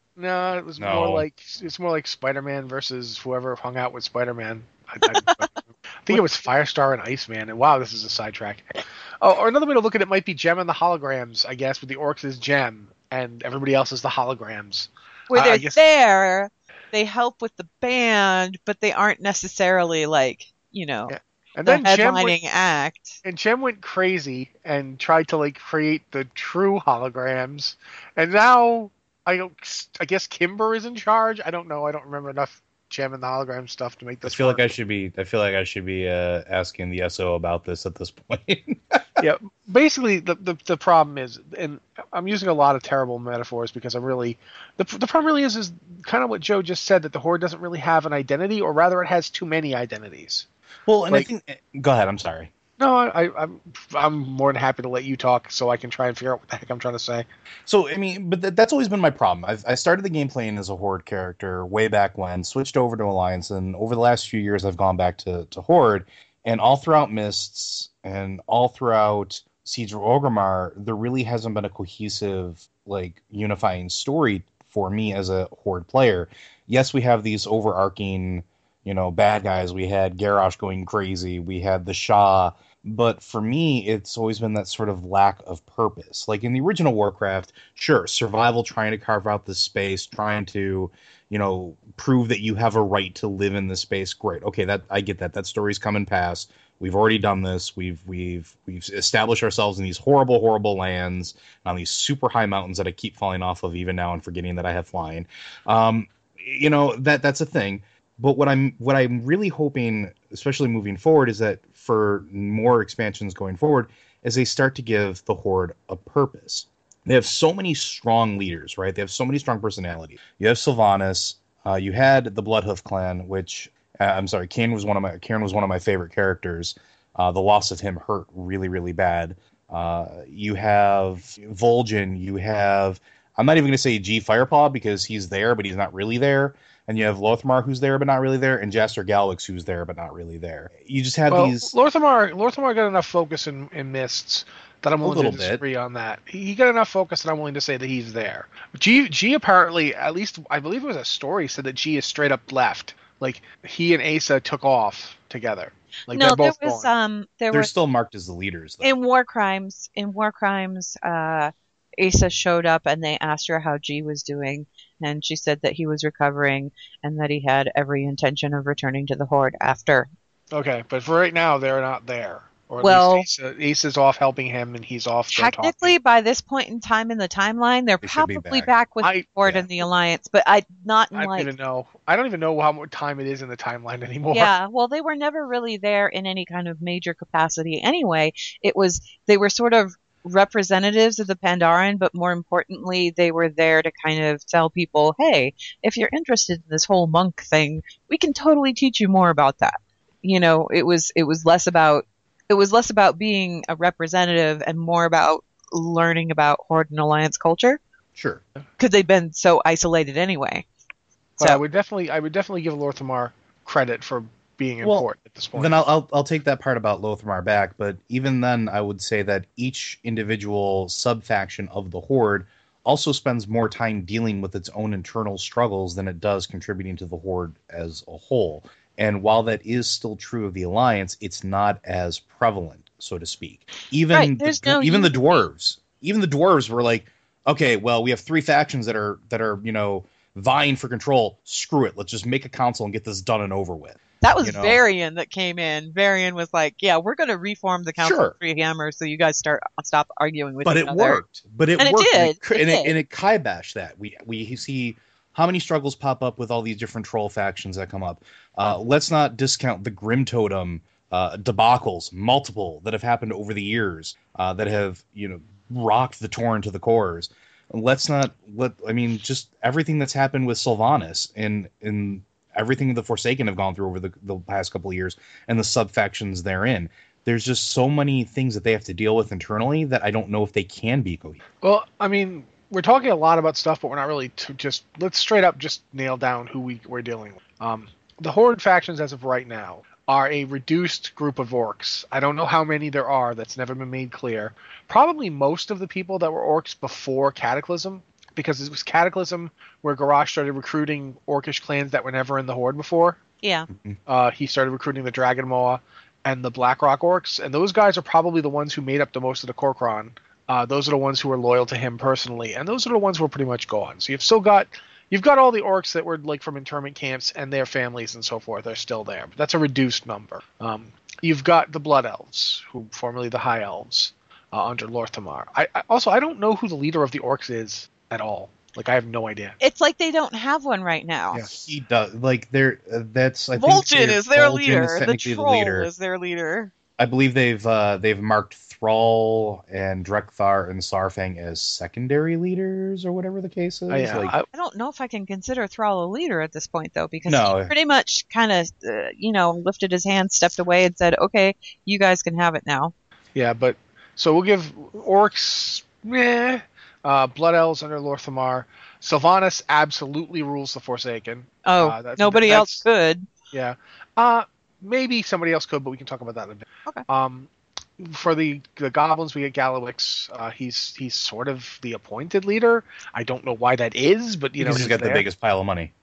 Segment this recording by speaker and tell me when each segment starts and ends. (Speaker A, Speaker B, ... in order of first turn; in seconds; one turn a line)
Speaker A: 0.2-15.8
Speaker B: 0.8-1.2
Speaker C: 15.3-21.1
Speaker A: 21.1-22.4
Speaker C: 21.6-23.2
Speaker A: 23.2-34.7
Speaker B: 34.2-39.2
Speaker A: 39.2-50.5
Speaker B: 50.9-52.5
Speaker A: 52.8-57.2
Speaker B: 57.6-141.7
Speaker A: 141.3-156.9
Speaker B: 145.0-145.6
Speaker C: 156.1-157.7
Speaker B: 157.5-158.9
Speaker C: 158.8-170.1
Speaker A: 170.5-175.9
Speaker C: 172.8-173.3
Speaker C: 175.3-181.5
Speaker B: 178.0-178.7
Speaker A: 179.0-179.3
Speaker A: 181.1-184.5
Speaker C: 184.3-207.8
Speaker B: 208.2-208.4
Speaker C: 208.8-210.6
Speaker A: 211.4-215.8
Speaker B: 214.8-244.8
Speaker C: 234.1-235.5
Speaker C: 244.2-251.2
Speaker B: 248.0-248.4
Speaker B: 250.6-281.4
Speaker C: 251.8-252.9
Speaker A: 281.6-303.2
Speaker C: 303.4-303.7
Speaker B: 303.7-304.0
Speaker A: 304.1-329.6
Speaker C: 329.6-331.4
Speaker B: 331.4-335.9
Speaker C: 333.6-336.7
Speaker B: 337.0-344.4
Speaker A: 343.9-344.5
Speaker C: 344.5-352.9
Speaker B: 347.3-347.7
Speaker A: 353.3-362.9
Speaker C: 361.6-363.3
Speaker A: 363.5-375.2
Speaker B: 374.6-375.9